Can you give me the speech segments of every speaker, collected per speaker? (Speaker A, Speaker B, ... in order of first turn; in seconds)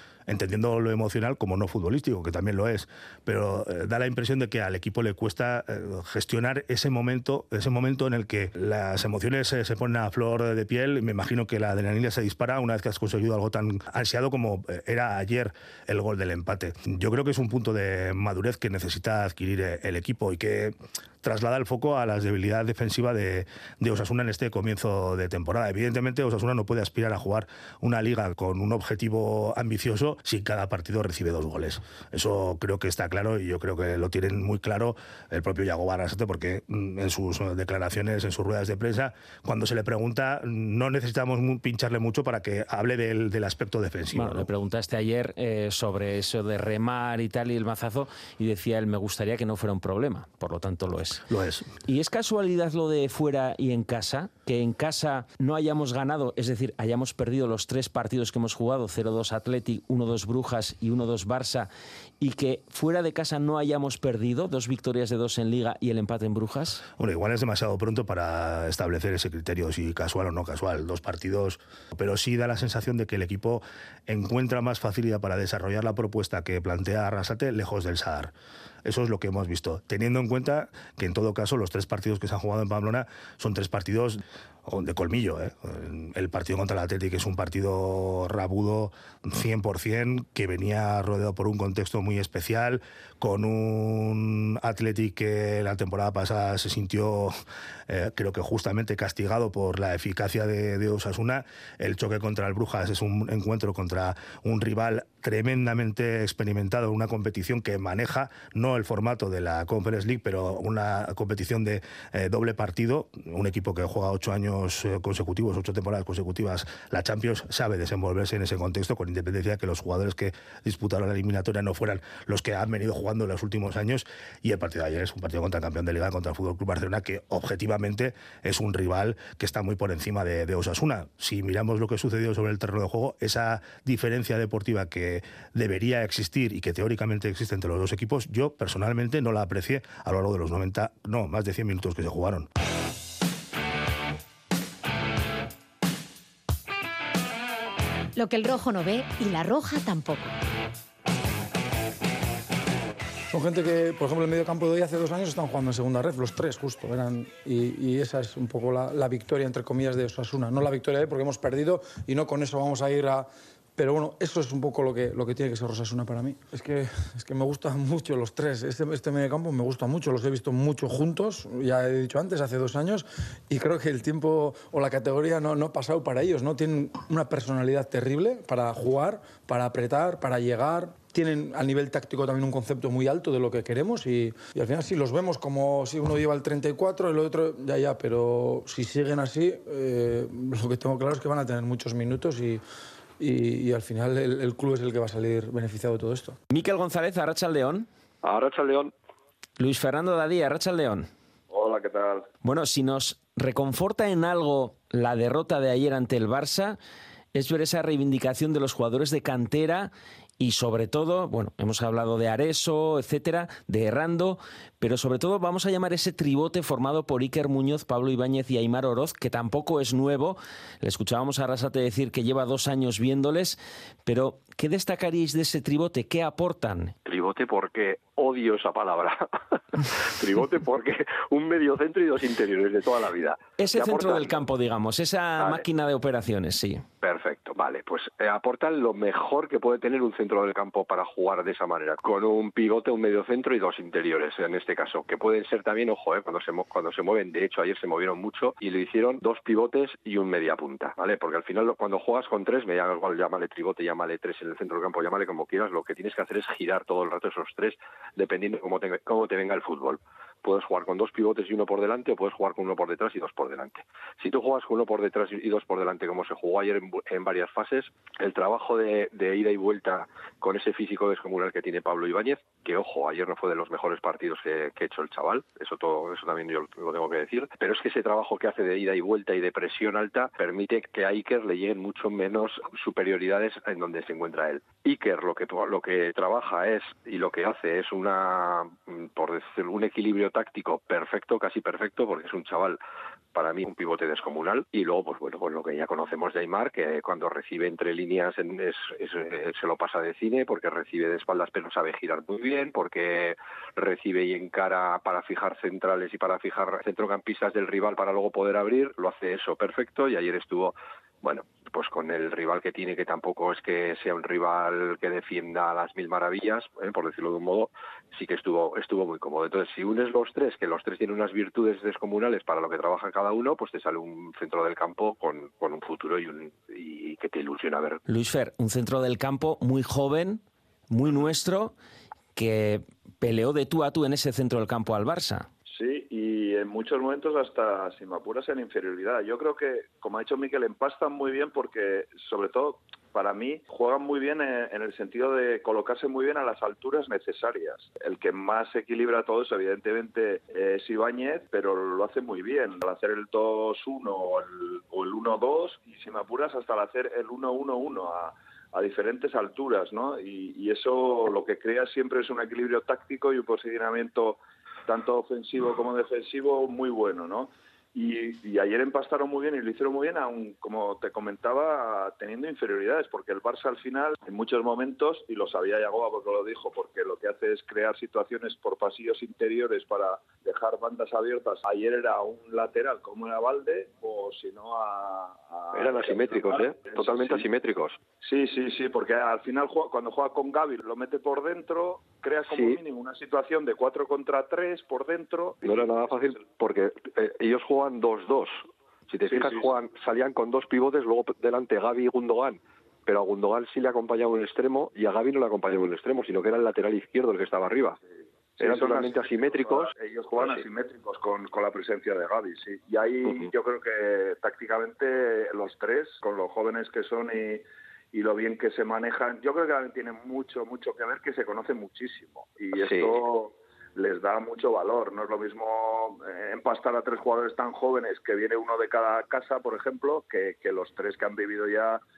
Speaker A: 0.3-44.5, 51.3-51.7, 67.0-78.3, 78.8-97.3, 97.9-142.5
Speaker B: 44.1-51.2, 51.9-61.7, 62.2-66.8, 196.5-197.9, 199.6-201.1, 202.4-206.8, 207.3-226.9, 233.6-236.8, 328.1-331.7, 332.4-335.5
Speaker C: 148.2-150.3
Speaker D: 153.3-192.6, 193.2-196.4
Speaker E: 198.2-198.9, 227.1-234.5, 235.4-235.7, 237.0-292.8, 293.3-328.0, 385.7-388.0, 392.5-392.8, 395.6-408.0, 408.6-410.6, 422.8-423.2
Speaker F: 201.5-202.3, 335.7-387.5, 388.2-396.5, 399.3-399.7, 408.6-432.0